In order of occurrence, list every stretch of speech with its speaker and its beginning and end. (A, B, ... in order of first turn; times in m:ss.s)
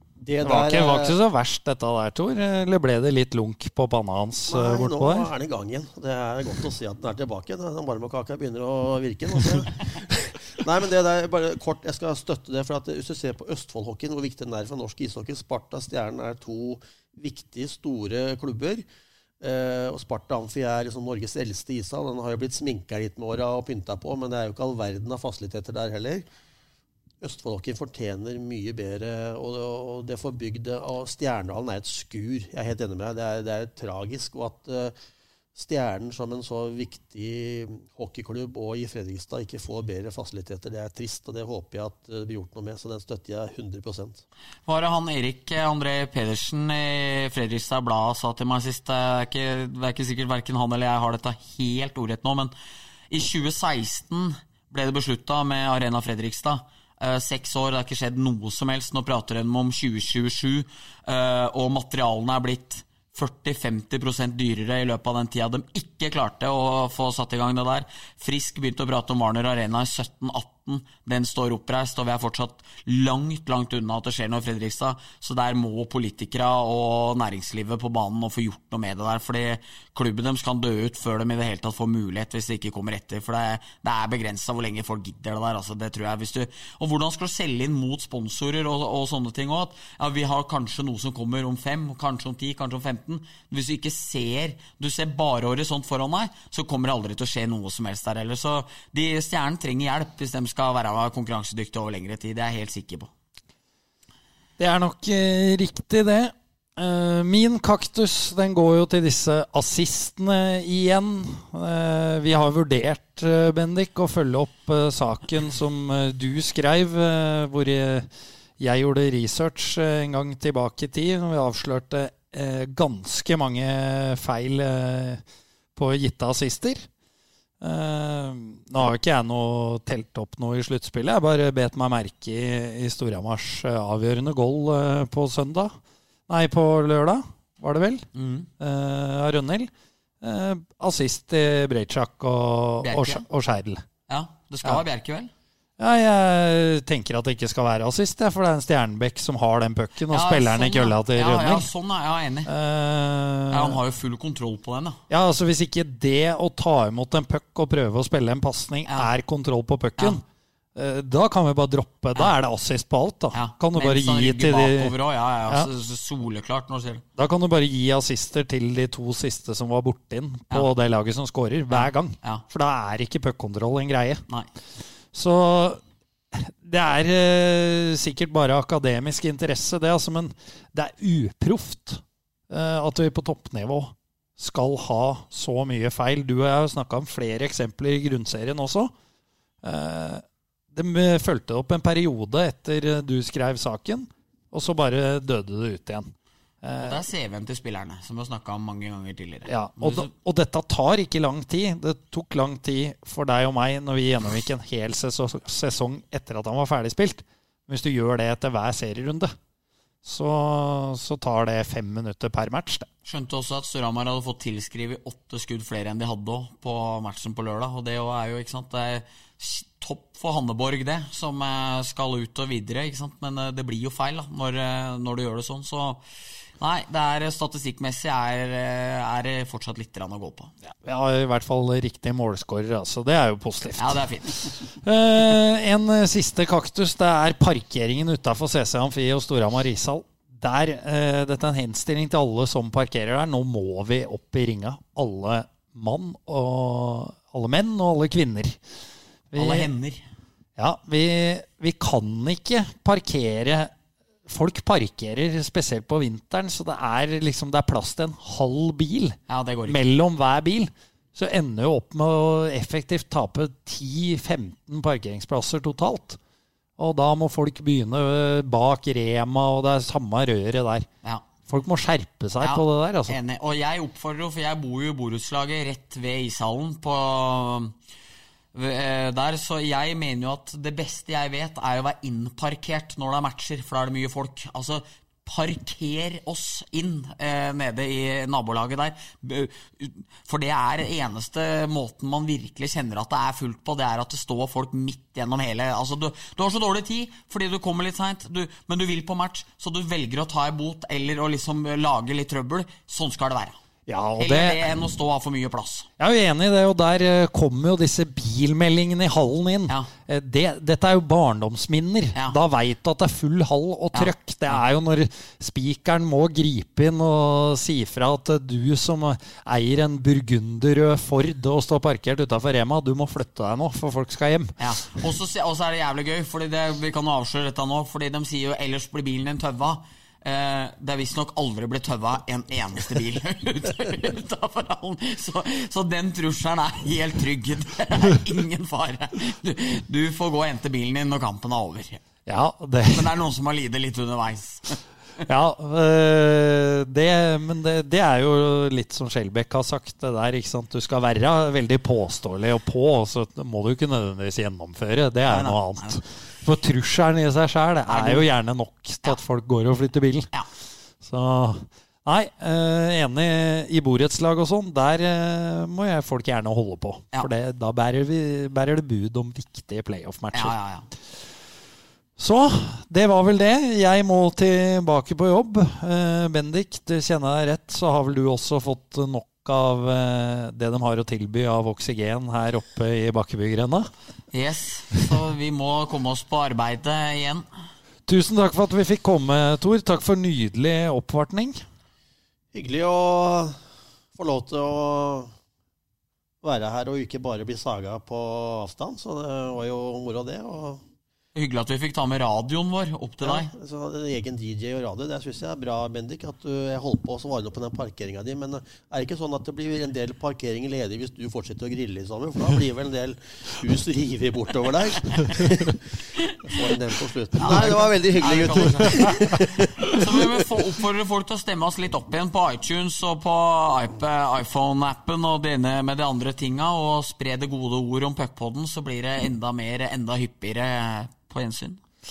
0:00.2-0:01.1 A
0:00.4-0:05.3 B
0:04.5-0:18.8 A
0:19.4-0:26.3 A
0:27.2-0:34.9 A
0:35.6-0:44.2 A
0:44.6-0:52.5 C
0:53.1-1:43.1 C
1:44.6-1:58.1 B
1:58.6-2:05.2 B
2:05.8-2:06.9 B
2:07.6-2:15.7 B
2:16.3-2:18.0 B
2:18.1-2:18.5 C
2:18.6-2:23.8 B
2:22.8-2:23.2 C
2:24.1-2:25.3 C
2:25.8-2:31.7 B
2:30.1-2:32.5 C
2:32.4-2:33.8 B
2:33.5-2:35.0 C
2:35.1-2:40.2 B
2:40.7-2:44.9 B
2:43.3-2:47.0 C
2:47.2-2:54.2 B
2:51.7-2:52.4 C
2:55.1-2:55.8 B
2:56.3-3:08.9 B
3:09.6-3:16.1 B
3:16.6-3:17.0 B
3:16.8-3:20.1 C
3:19.5-3:29.3 B
3:30.0-3:32.9 B
3:33.0-3:46.0 C
3:46.6-3:50.5 C
3:50.6-4:08.6 B
3:53.8-3:54.6 C
4:09.3-4:09.7 B
4:09.3-4:10.0 C
4:10.6-4:13.7 B
4:14.3-4:26.2 B
4:19.3-4:19.8 C
4:26.8-4:30.9 B
4:31.5-4:33.2 B
4:32.4-4:37.7 C
4:38.5-5:03.6 C
5:03.9-5:04.6 B
5:04.2-5:05.9 C
5:06.0-5:24.6 B
5:13.9-5:14.6 C
5:24.6-5:42.0 C
5:42.3-5:43.1 B
5:42.9-5:44.8 C
5:45.3-6:00.3 B
5:55.3-5:56.0 C
5:57.9-5:58.3 C
6:01.0-6:10.5 B
6:10.3-6:10.9 C
6:12.2-6:23.9 B
6:24.3-6:27.4 C
6:28.1-6:31.6 B
6:32.5-6:33.6 A
6:34.2-6:35.3 A
6:36.4-6:40.8 A
6:41.3-6:43.5 C
6:43.2-7:00.0 A
6:57.4-7:11.8 C